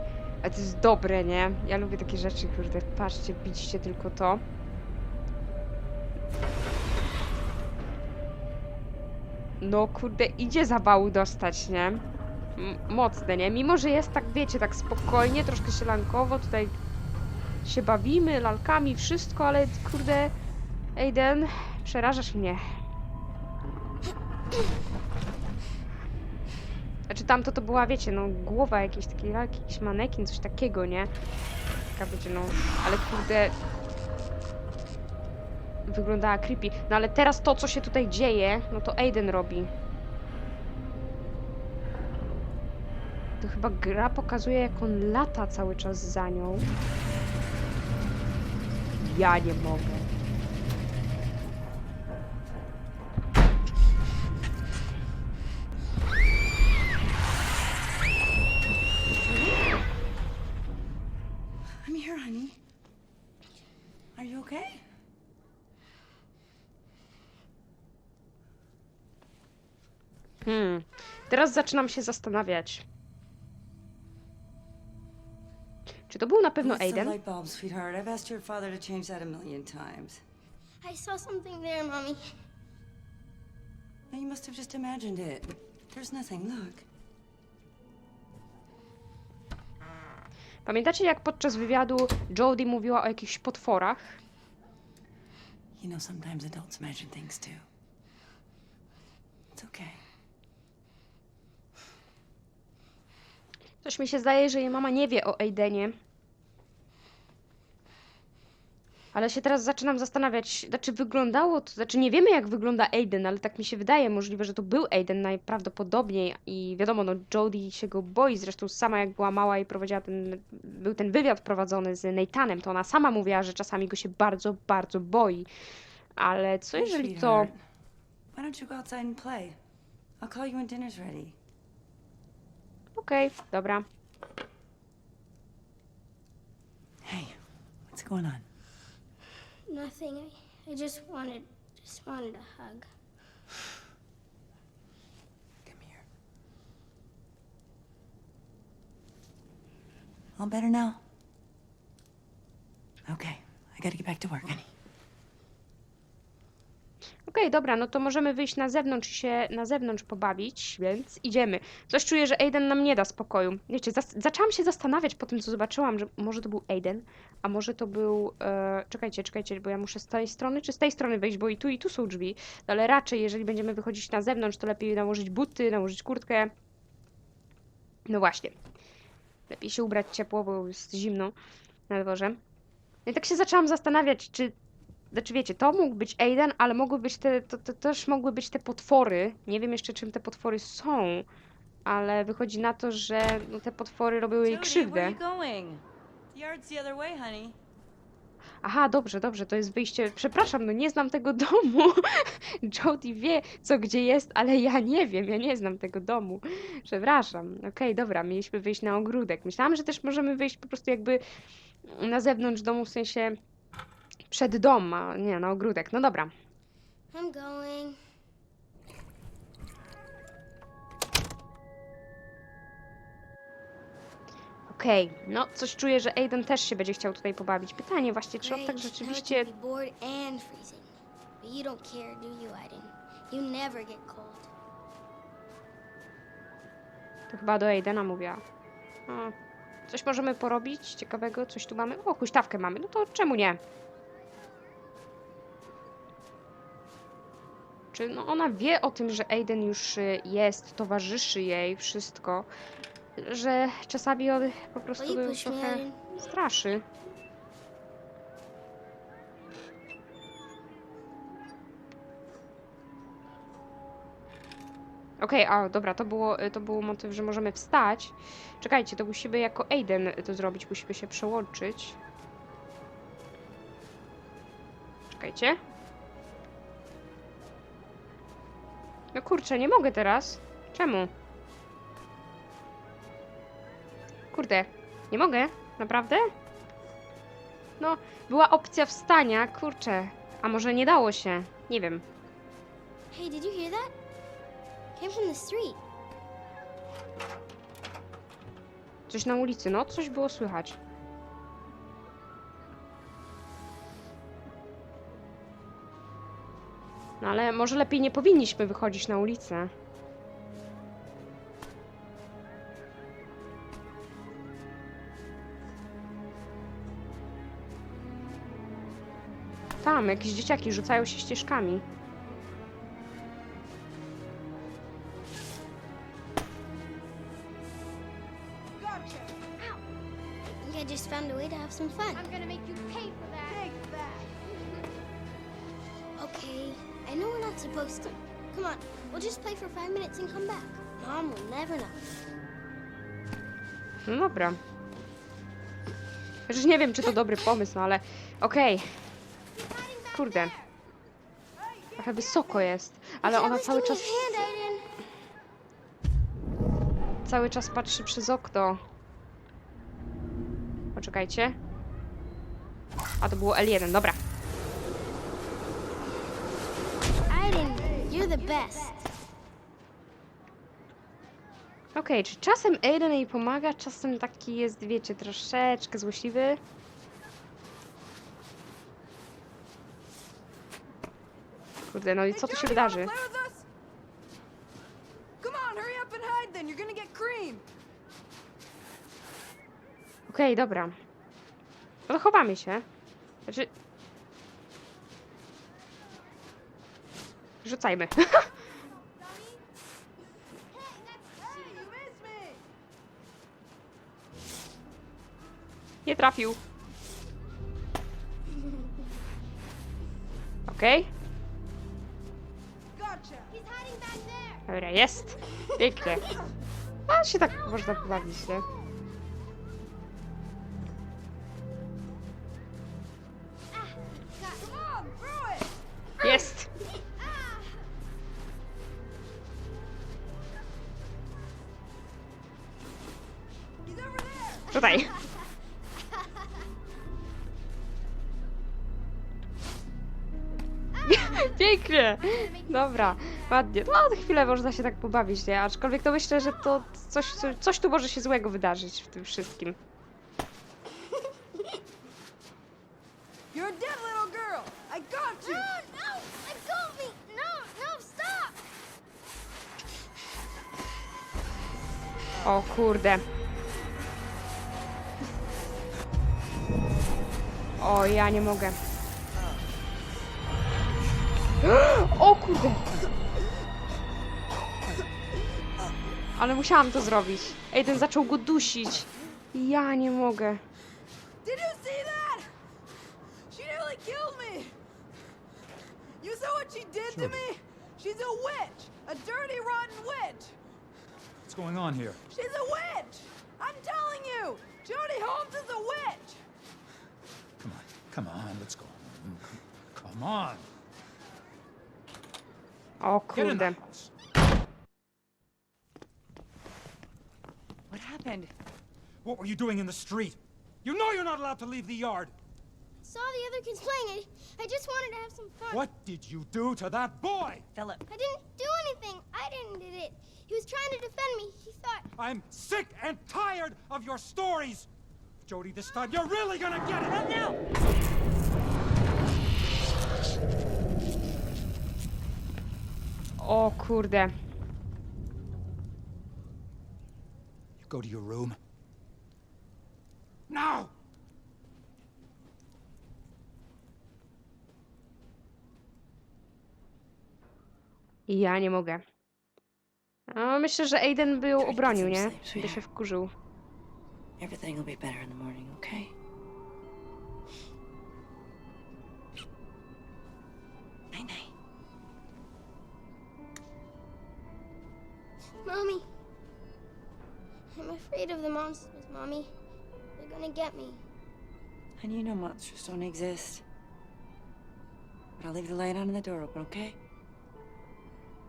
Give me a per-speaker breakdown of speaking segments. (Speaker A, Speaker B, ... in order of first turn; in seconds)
Speaker A: 0.4-4.4, 9.6-12.0, 12.6-16.8, 17.6-20.3, 20.9-22.6, 27.1-31.1, 31.9-33.5, 35.9-39.7, 43.4-46.6, 49.0-50.1, 70.4-72.8, 76.1-77.2, 90.7-94.2, 103.8-106.0, 109.1-125.5, 126.2-127.5, 133.0-133.8, 157.3-176.5, 178.1-178.5, 179.5-181.3, 181.9-182.4, 183.1-184.5, 185.1-191.2, 191.8-195.2, 198.6-211.2, 211.8-213.4, 214.3-216.3, 224.7-229.5, 237.3-238.4, 239.1-239.3, 239.9-243.6, 247.9-252.5, 253.2-256.8, 265.2-272.0, 275.1-275.6, 279.1-281.1, 284.3-286.3, 287.8-292.0, 299.1-300.8, 307.2-309.7, 319.8-321.8, 344.1-344.6, 346.5-348.9, 350.1-350.5, 352.0-354.5, 357.2-358.8, 360.9-361.6, 363.2-364.2, 371.9-376.6, 381.9-383.1, 390.3-390.9, 392.1-392.8, 397.6-398.5, 406.0-406.6, 410.7-411.1, 414.7-416.3, 417.1-418.6, 426.2-426.7, 434.7-435.1, 441.0-449.8, 462.4-463.2, 467.8-468.8, 471.6-472.9, 476.4-480.6, 503.0-503.8, 533.4-534.3, 548.3-549.0, 550.3-553.3
Speaker B: 61.8-62.6, 64.1-64.8, 76.6-80.2, 84.1-86.8, 95.8-97.6, 99.5-100.0, 126.8-127.6, 128.3-129.6, 130.2-131.3, 137.0-138.4, 145.7-146.0, 150.4-151.0, 153.1-154.7, 194.4-197.6, 507.9-508.5, 517.7-518.0, 527.1-527.6, 551.6-552.8, 554.4-556.1, 561.1-561.5, 572.0-573.6, 575.4-577.0
Speaker C: 80.8-82.3, 139.7-142.9, 217.1-218.0, 228.4-234.5, 255.0-256.0, 293.1-293.9, 294.9-295.8, 330.6-332.4, 336.1-342.0, 349.6-350.6, 353.2-355.0, 367.3-369.0, 413.5-414.6, 455.4-458.6, 513.0-515.8, 518.1-522.0, 565.6-566.0, 567.7-569.5, 570.2-571.0
Speaker D: 328.8-329.3, 332.2-334.3, 382.3-383.6, 385.4-387.6, 401.4-402.6, 413.0-413.5, 424.4-425.7, 433.8-435.1, 453.5-455.7, 481.4-482.5, 483.5-484.8, 486.2-490.6, 492.3-496.4
Speaker E: 487.1-487.4, 491.4-492.2, 497.6-500.7, 503.3-504.1, 509.2-512.3, 515.7-517.6, 522.2-524.9, 525.4-527.4, 537.8-538.6, 540.5-540.9